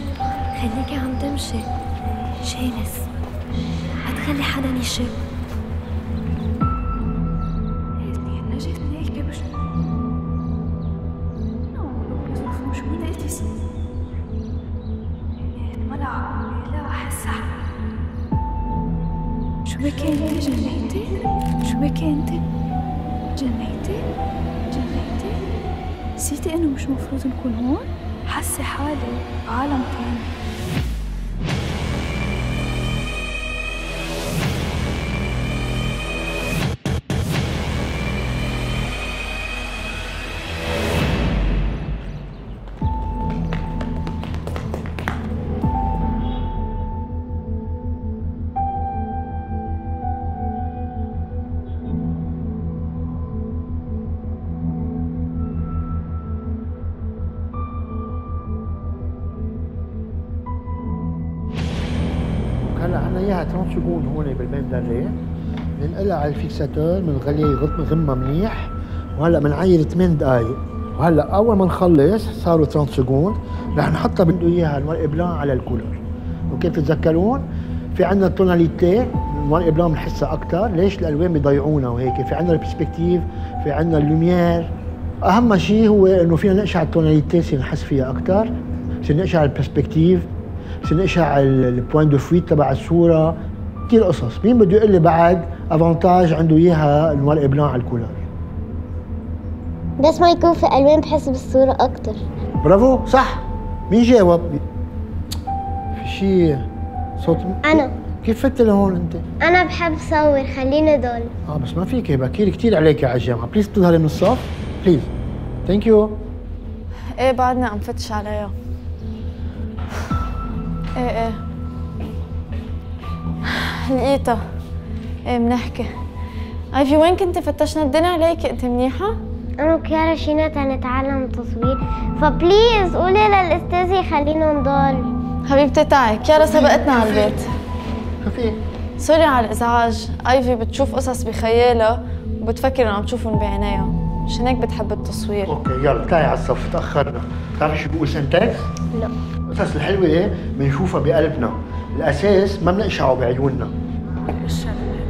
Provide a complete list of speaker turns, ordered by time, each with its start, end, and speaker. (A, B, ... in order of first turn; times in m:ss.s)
0:00.6-0:01.7 A
0:02.4-0:02.8 B
0:04.0-0:05.1 A
0:08.0-0:09.5 B
0:11.7-0:13.5 B
0:15.4-0:17.5 B
0:19.6-0:22.4 B
0:23.4-0:24.0 B
0:24.7-0:25.6 B
0:26.2-0:30.3 B
1:02.6-1:05.2 C
1:05.8-1:24.7 C
1:25.2-1:28.5 C
1:29.0-1:30.3 C
1:30.8-1:33.4 C
1:33.9-1:38.2 C
1:40.0-1:42.2 D
1:42.6-1:44.6 C
1:45.9-1:49.2 C
1:47.7-1:47.9 D
1:49.4-1:51.3 D
1:51.5-1:55.1 C
1:55.6-1:56.2 C
1:57.2-1:58.5 E
2:01.0-2:01.4 E
2:03.5-2:04.4 E
2:05.2-2:05.9 E
2:06.7-2:09.2 E
2:09.6-2:15.1 D
2:15.5-2:17.5 E
2:16.3-2:17.4 C
2:18.2-2:18.6 C
2:19.0-2:25.5 E
2:25.5-2:28.7 C
2:29.5-2:33.7 C